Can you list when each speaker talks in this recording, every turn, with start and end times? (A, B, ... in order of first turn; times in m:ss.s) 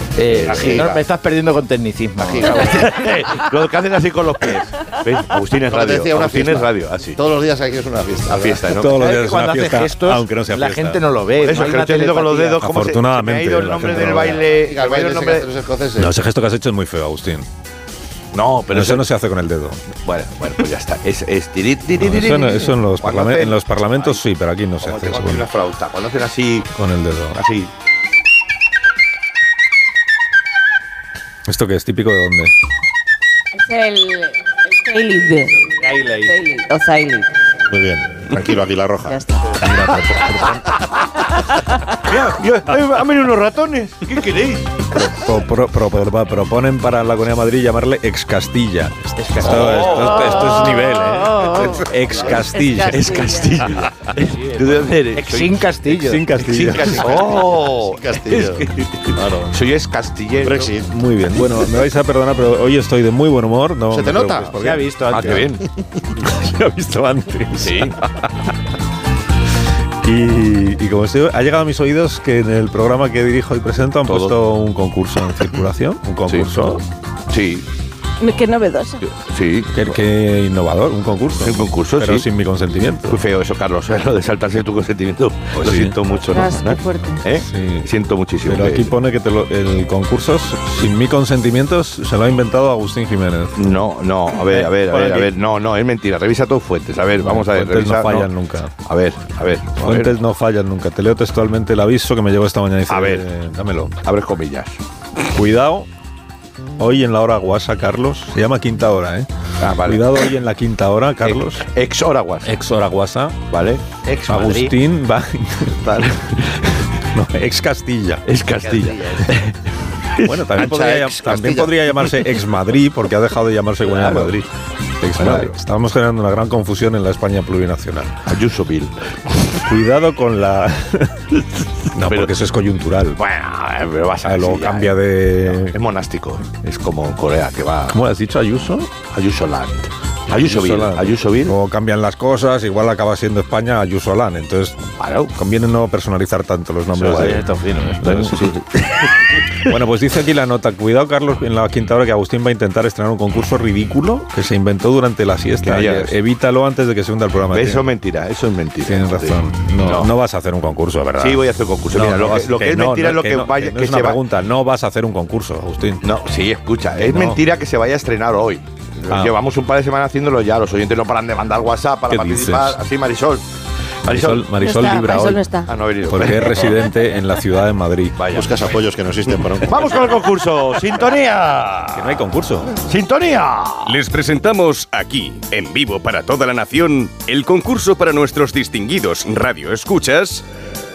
0:00.2-0:03.2 A
0:00.3-0:01.0 B
0:00.5-0:01.0 C
0:02.2-0:02.8 C
0:02.7-0:07.2 B
0:05.6-0:08.7 C
0:08.3-0:09.0 B
0:08.7-0:11.0 D
0:09.0-0:12.6 A
0:11.4-0:15.4 B
0:12.6-0:14.4 D
0:14.1-0:16.1 C
0:16.0-0:17.5 D
0:18.3-0:19.0 B
0:18.7-0:19.8 D
0:20.0-0:24.2 B
0:22.0-0:25.5 D
0:24.8-0:26.7 B
0:26.7-0:27.4 D
0:27.3-0:27.7 B
0:31.5-0:32.5 D
0:33.5-0:35.5 E
0:35.8-0:36.3 A
0:36.2-0:37.3 E
0:37.7-0:40.8 C
0:39.0-0:39.5 E
0:42.0-0:44.9 B
0:45.0-0:53.4 D
0:49.2-0:49.8 A
0:49.4-0:50.4 B
0:49.8-0:53.6 E
0:52.9-0:55.7 B
0:54.1-0:56.3 A
0:55.9-0:57.2 D
0:56.4-1:00.7 B
0:57.0-0:58.7 C
1:00.4-1:00.9 C
1:00.9-1:05.2 D
1:03.9-1:04.6 C
1:04.6-1:05.5 A
1:05.1-1:05.6 B
1:06.2-1:08.2 D
1:07.6-1:08.0 B
1:10.0-1:16.8 D
1:14.1-1:14.4 B
1:17.3-1:17.6 B
1:18.2-1:19.0 E
1:19.0-1:19.8 B
1:19.7-1:23.2 D
1:21.4-1:22.2 B
1:23.1-1:28.9 B
1:25.5-1:26.0 D
1:26.3-1:27.2 E
1:27.4-1:27.9 D
1:28.4-1:33.7 D
1:33.6-1:38.3 B
1:34.5-1:35.3 D
1:37.2-1:38.7 D
1:38.8-1:40.1 B
1:39.8-1:43.9 D
1:42.9-1:43.2 B
1:44.0-1:44.8 B
1:45.3-1:45.9 D
1:46.8-1:49.3 D
1:49.6-1:50.3 B
1:49.8-1:51.6 D
1:51.2-1:52.5 B
1:52.4-1:53.4 D
1:53.5-1:53.8 B
1:54.0-1:54.7 A
1:54.3-1:55.9 D
1:55.8-1:56.9 B
1:57.1-1:58.2 D
1:58.3-1:59.6 B
1:58.6-1:59.3 A
2:00.1-2:00.8 B
2:00.2-2:04.5 D
2:00.6-2:01.8 C
2:03.9-2:04.3 B
2:05.0-2:08.2 D
2:05.2-2:05.6 B
2:08.3-2:09.7 B
2:09.7-2:11.3 D
2:11.9-2:13.2 D
2:12.0-2:12.3 B
2:13.2-2:18.0 B
2:14.2-2:15.8 D
2:17.9-2:18.9 D
2:19.1-2:21.6 B
2:20.3-2:24.8 D
2:25.0-2:25.3 B
2:25.3-2:27.4 D
2:27.0-2:28.6 A
2:28.0-2:28.6 D
2:29.6-2:37.9 D
2:35.6-2:36.1 B
2:37.5-2:40.1 B
2:38.8-2:46.0 D
2:41.2-2:44.2 B
2:46.0-2:53.4 B
2:47.0-2:47.4 D
2:49.1-2:49.3 D
2:52.1-2:52.8 D
2:54.0-2:54.5 B
2:54.0-2:55.4 D
2:54.6-2:55.7 E
2:55.7-2:56.8 B
2:56.1-2:58.4 D
2:58.2-2:58.5 B
2:58.3-2:59.8 C
2:59.6-3:02.2 B
3:01.9-3:02.7 D
3:02.8-3:04.0 B
3:03.8-3:10.4 F